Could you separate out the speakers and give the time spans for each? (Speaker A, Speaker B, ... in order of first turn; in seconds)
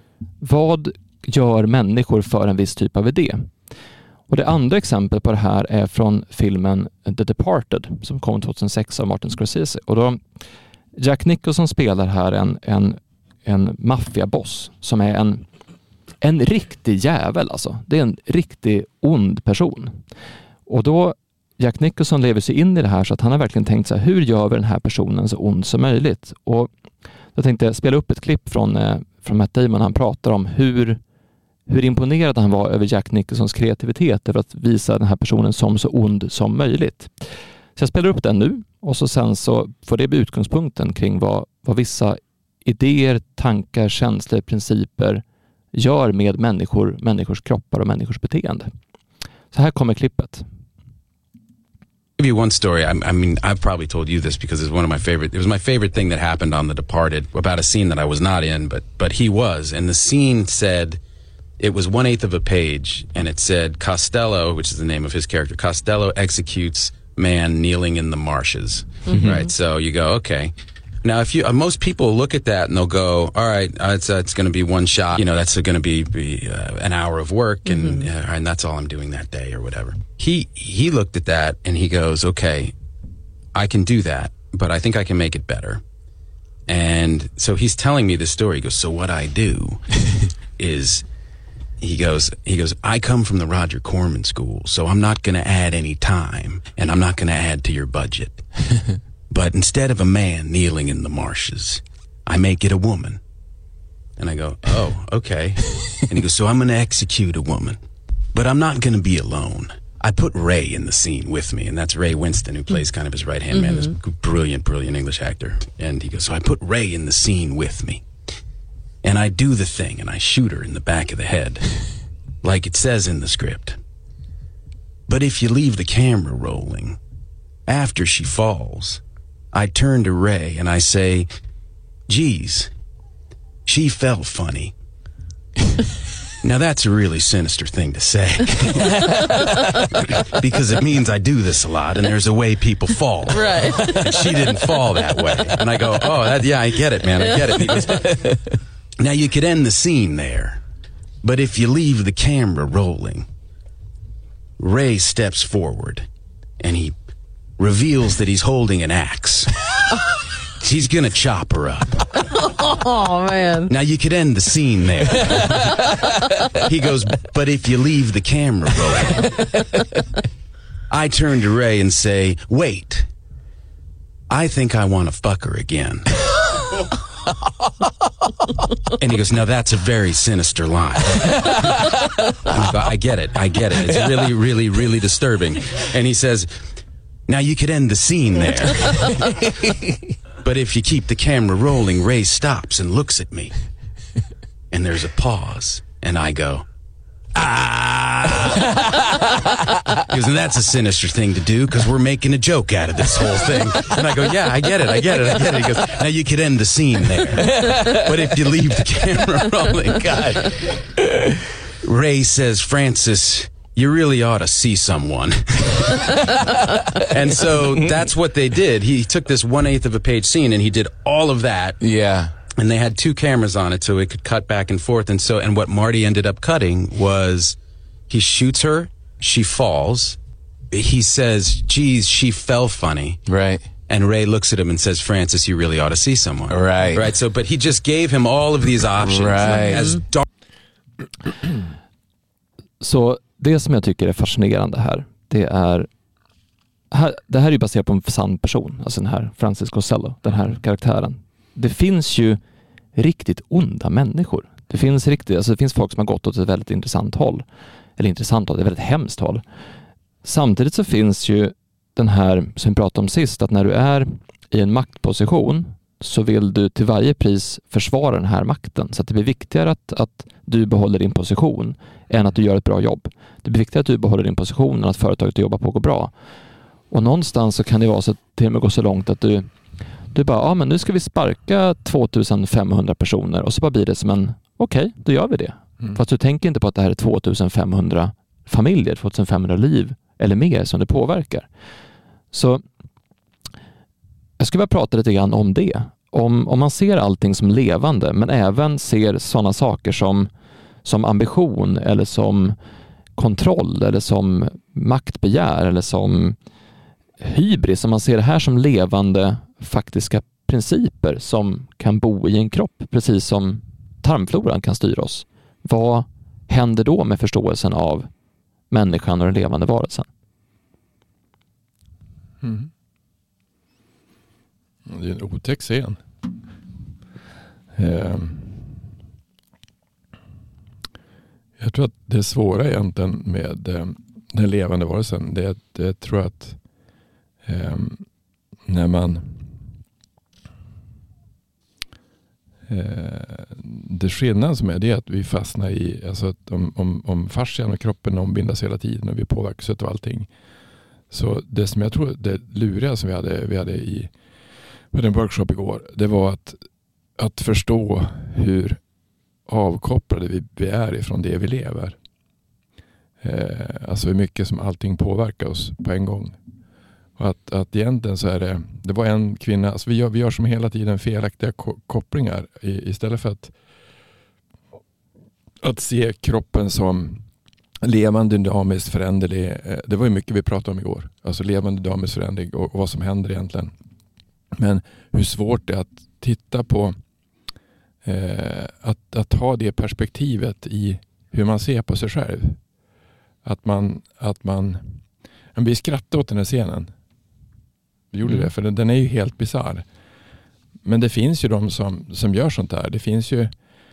Speaker A: 0.4-3.5, 4.3-10.2, 10.9-15.4, 16.2-20.0, 20.7-26.7, 27.3-31.0, 31.7-48.7, 49.5-50.5, 242.8-245.9, 246.9-252.4, 252.9-257.4, 258.0-259.4, 260.2-276.1, 276.9-279.5, 280.1-291.5, 292.3-292.6, 294.4-300.3, 300.8-302.6, 303.1-306.4, 307.2-318.1, 318.7-320.1
Speaker B: 52.2-61.0, 61.6-82.8, 83.5-85.8, 86.7-90.0, 90.5-91.0, 91.8-98.4, 99.3-103.2, 104.2-107.8, 108.3-118.0, 119.0-121.7, 122.4-123.8, 125.1-127.0, 127.7-131.3, 132.1-132.7, 133.7-134.7, 136.4-148.4, 149.0-150.6, 151.2-153.3, 154.6-156.1, 156.6-156.9, 157.6-159.7, 160.5-162.1, 163.7-165.9, 166.6-169.5, 170.9-173.1, 174.3-176.4, 179.0-181.9, 182.4-186.5, 187.3-189.3, 190.4-193.5, 194.7-196.7, 197.3-211.0, 211.7-221.8, 222.6-227.6, 228.1-230.2, 230.7-233.2, 233.9-240.2
Speaker C: 69.1-69.5, 77.7-78.0, 113.5-114.0, 143.3-144.0, 147.2-147.8, 162.4-163.7
Speaker D: 69.1-69.4, 138.9-139.9, 143.9-144.8, 189.6-189.9, 207.4-208.2, 221.8-222.3, 233.3-233.7, 236.5-237.1, 239.0-240.0
Speaker E: 322.4-322.7, 324.9-326.0, 327.7-328.7, 331.6-336.6, 337.4-338.1, 338.7-339.5, 342.7-350.3, 351.1-354.1, 354.9-356.6, 357.1-358.8, 359.5-362.0, 363.2-366.4, 367.2-373.5, 375.6-377.2, 377.8-383.7, 384.5-386.9, 388.0-392.6, 393.4-395.0, 395.5-396.9, 398.1-399.9, 400.8-403.5